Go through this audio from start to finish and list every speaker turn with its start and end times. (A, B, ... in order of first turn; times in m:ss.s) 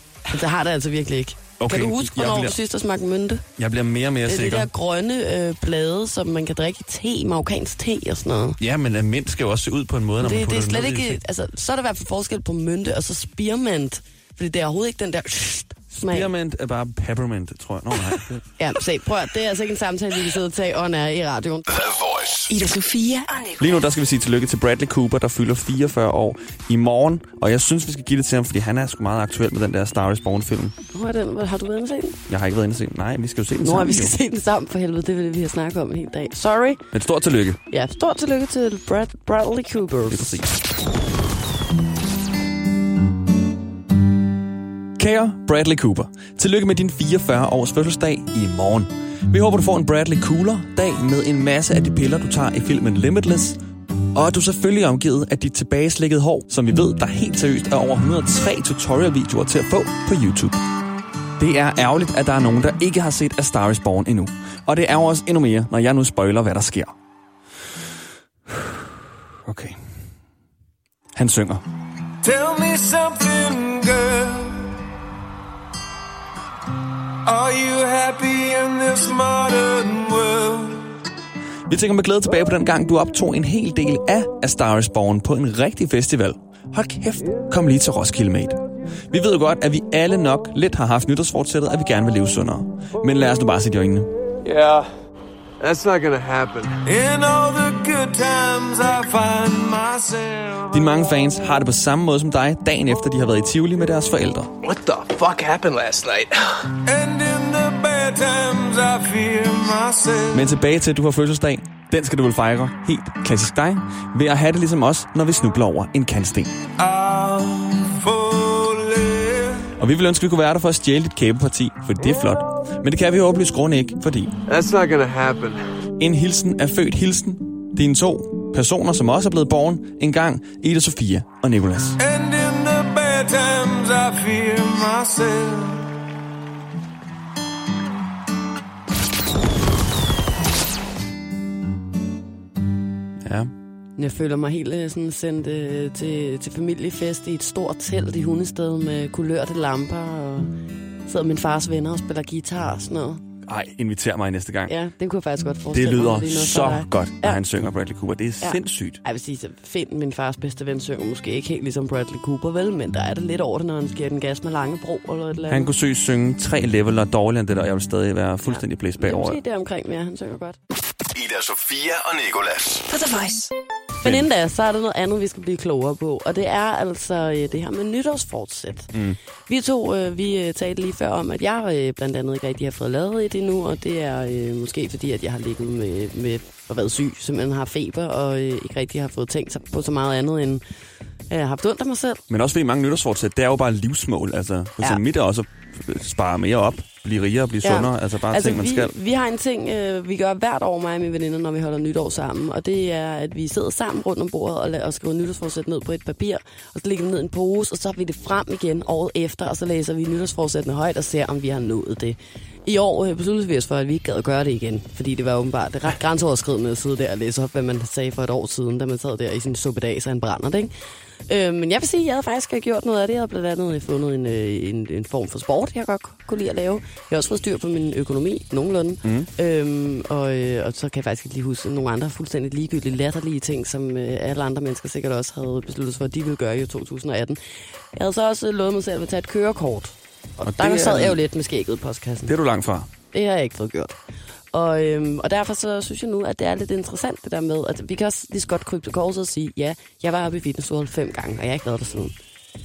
0:00.3-0:03.4 A
0:01.6-0:02.6 B
0:03.6-0:04.7 B
0:04.2-0:08.6 A
0:08.6-0:11.2 B
0:10.2-0:16.3 A
0:16.1-0:18.4 B
0:18.6-0:21.7 A
0:21.7-0:22.5 C
0:22.5-0:23.9 D
0:23.6-0:30.7 B
0:30.9-0:32.2 A
0:32.3-0:34.2 B
0:33.6-0:36.8 A
0:36.9-0:37.6 B
0:37.7-0:40.4 A
0:40.1-0:40.6 B
0:45.0-0:53.6 B
0:54.1-1:00.6 B
1:01.4-1:06.9 B
1:08.5-1:08.9 B
1:09.4-1:09.8 B
1:11.1-1:11.6 B
1:12.2-1:14.8 E
1:17.2-1:20.9 E
1:21.7-1:28.6 B
1:29.1-1:34.1 B
1:34.4-1:34.8 E
1:35.6-1:40.8 E
1:40.7-1:44.5 B
1:44.6-1:46.7 F
1:46.8-1:50.5 E
1:50.3-1:56.5 B
1:56.8-1:59.7 E
1:59.8-2:04.3 B
2:04.5-2:05.6 E
2:06.0-2:12.0 B
2:12.0-2:15.9 E
2:23.2-2:23.5 B
2:24.0-2:30.5 A
2:31.0-2:33.2 A
2:33.4-2:34.7 B
2:34.7-2:37.4 A
2:35.7-2:39.0 B
2:38.4-2:45.7 A
2:45.5-2:49.4 B
2:48.4-2:50.6 A
2:51.1-2:52.9 C
2:52.9-2:53.5 D
2:54.0-2:58.9 A
2:54.0-2:54.3 B
2:59.5-3:10.6 A
3:11.3-3:12.2 A
3:12.3-3:18.9 B
3:17.6-3:40.7 A
3:41.3-3:57.4 A
3:49.0-3:49.3 B
3:57.9-4:02.3 A
4:00.4-4:01.2 B
4:02.2-4:02.9 B
4:03.1-4:04.0 A
4:04.5-4:12.1 A